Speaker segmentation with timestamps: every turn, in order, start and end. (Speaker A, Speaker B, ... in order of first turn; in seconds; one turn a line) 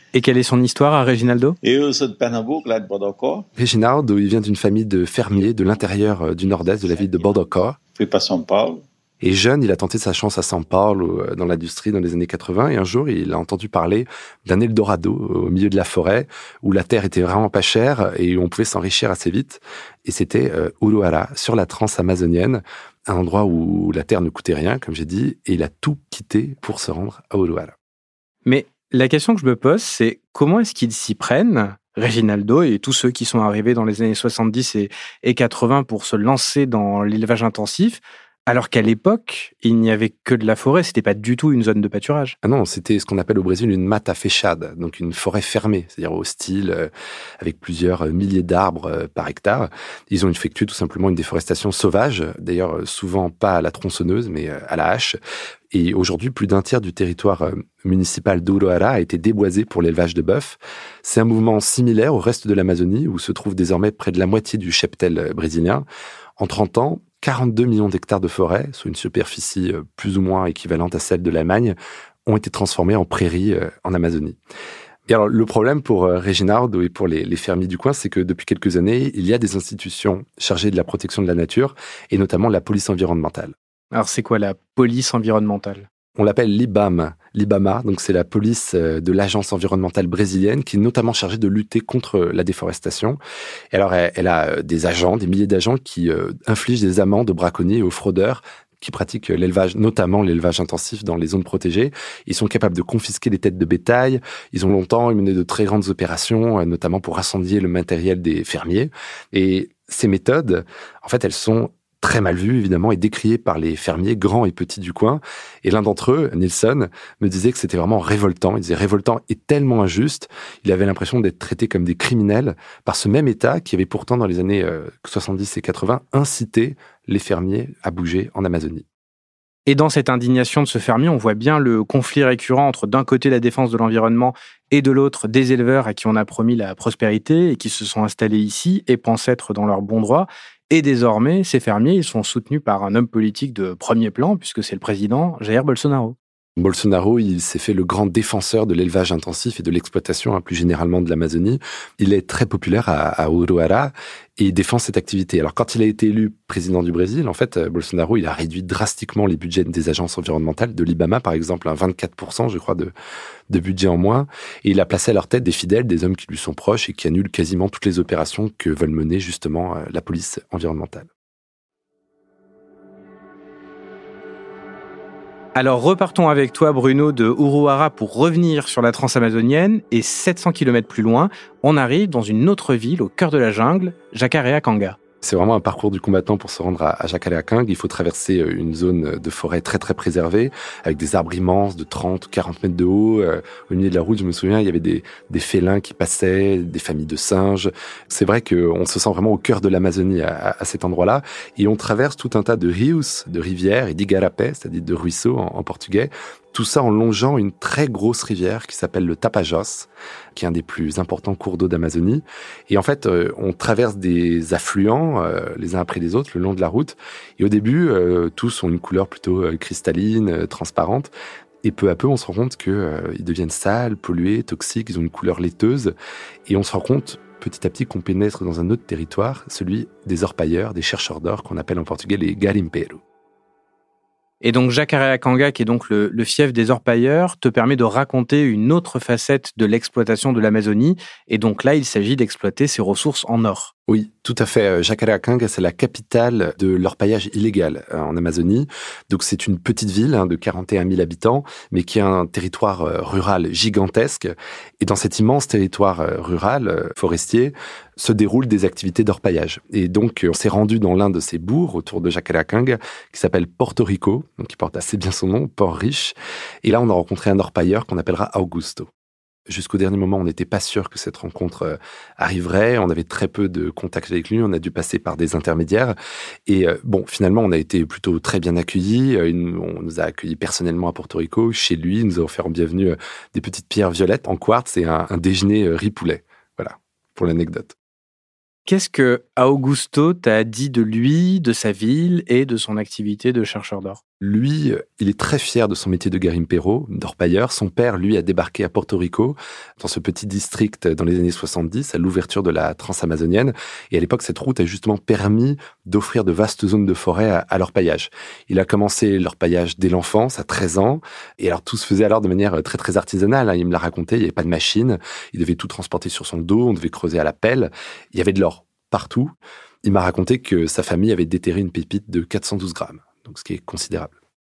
Speaker A: 0.1-1.6
Speaker B: 1.6-3.5
Speaker C: 3.6-7.8
Speaker B: 7.9-8.8
Speaker C: 9.2-27.7
Speaker A: 28.5-42.4
Speaker C: 42.4-55.2
Speaker C: 55.7-65.8
Speaker C: 66.4-74.4
Speaker C: 75.1-83.5
Speaker A: 83.9-85.9
Speaker C: 86.2-93.2
Speaker C: 93.7-128.8
Speaker A: 129.7-146.2
Speaker C: 146.6-162.9
Speaker C: 163.5-171.1
Speaker A: 175.6-185.0
Speaker C: 185.2-221.1
Speaker C: 221.6-225.9
Speaker C: 226.5-233.0
Speaker A: 234.4-243.7
Speaker C: 243.9-268.9
Speaker C: 269.5-275.9
Speaker C: 276.5-287.8
Speaker A: 288.7-294.0
Speaker C: 294.2-324.1